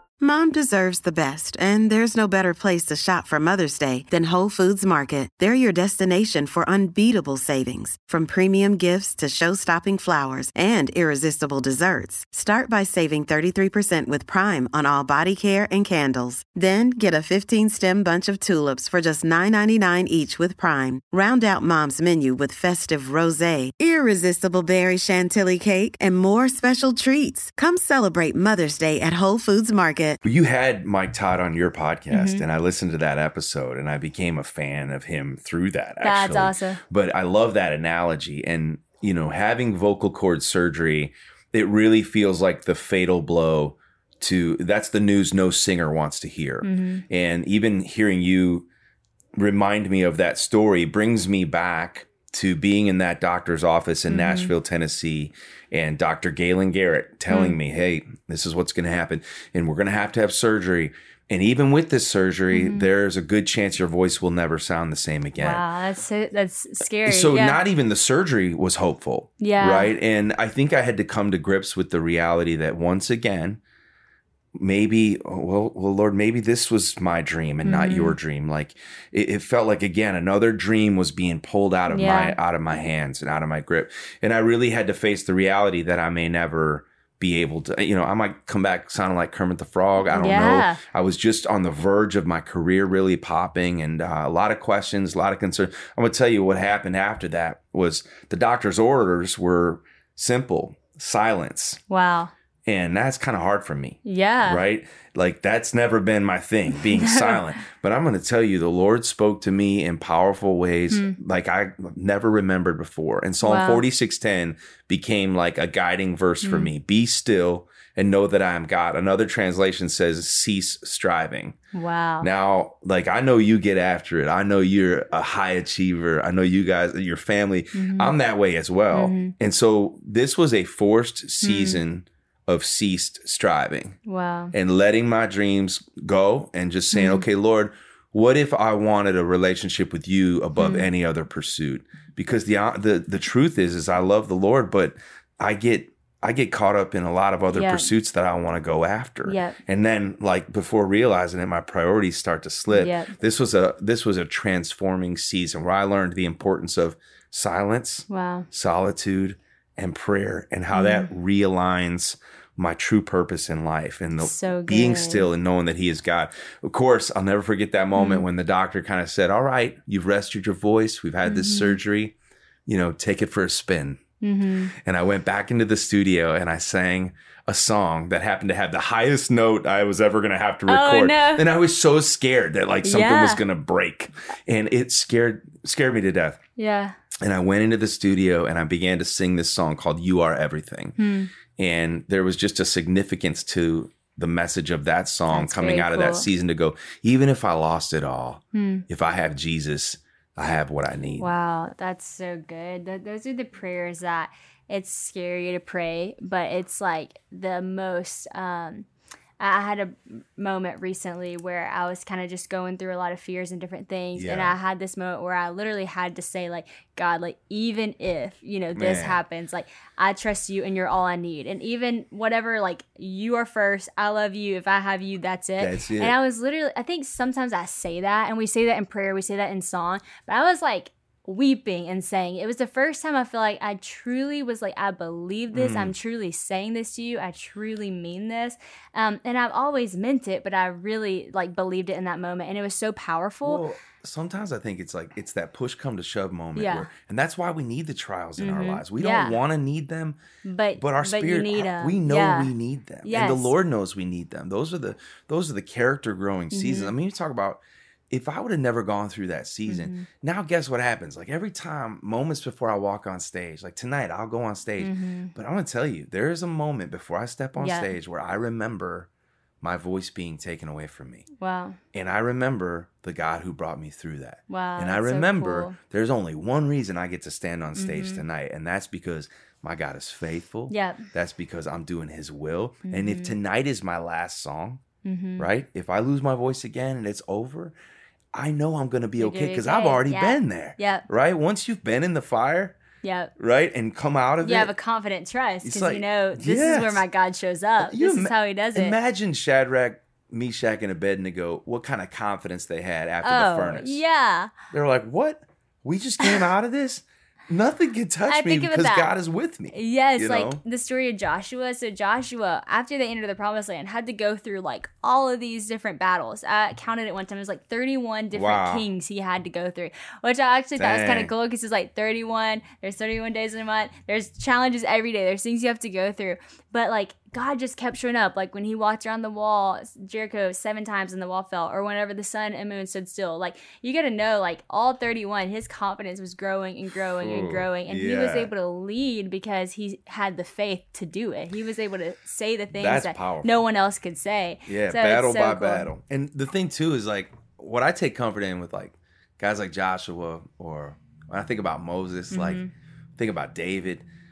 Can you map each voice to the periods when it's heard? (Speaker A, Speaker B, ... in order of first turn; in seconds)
Speaker A: 0.2-30.2
Speaker B: 30.2-48.7, 49.4-65.6, 67.1-73.6, 74.5-101.8, 102.7-121.6, 122.2-134.0, 134.5-172.2, 172.7-174.0, 174.7-186.4, 187.2-191.0, 191.6-201.3, 214.2-214.6, 218.8-219.2, 225.6-226.2, 235.5-235.9, 243.4-250.2, 250.8-269.1, 269.6-271.3, 271.9-284.8, 285.4-287.8, 288.3-292.8, 293.4-294.7, 295.6-297.0, 297.8-304.0, 304.7-310.6, 318.3-318.9, 320.8-321.3, 337.2-338.5, 342.8-343.6, 344.7-352.6, 353.2-354.1
Speaker C: 32.1-32.4, 36.0-36.8, 46.6-47.0, 54.1-54.5, 57.3-57.6, 62.5-62.9, 65.4-67.6, 69.4-69.9, 77.6-78.2, 81.9-82.4, 90.1-90.8, 101.9-102.3, 104.0-104.6, 106.7-107.4, 110.9-111.2, 113.4-113.8, 116.4-116.7, 121.7-122.3, 127.7-128.1, 128.9-129.3, 131.4-131.8, 134.1-134.5, 136.9-137.2, 140.6-140.9, 147.5-147.9, 149.3-149.6, 152.7-153.1, 158.1-158.5, 160.7-161.1, 164.2-165.3, 167.9-168.3, 171.2-171.8, 174.2-174.7, 180.7-181.4, 182.8-183.4, 186.6-187.0, 191.0-191.3, 195.3-196.3, 198.5-198.8, 201.2-208.9, 209.4-243.6, 246.6-246.9, 248.4-249.4, 250.4-252.5, 253.0-253.5, 256.5-256.9, 259.7-260.1, 264.8-265.3, 267.6-267.9, 271.4-271.8, 274.5-275.8, 277.8-278.2, 280.7-281.1, 282.9-283.4, 285.0-285.5, 289.2-291.1, 293.0-293.3, 294.4-299.0, 303.2-304.5, 308.3-309.1, 309.7-345.9, 352.3-352.7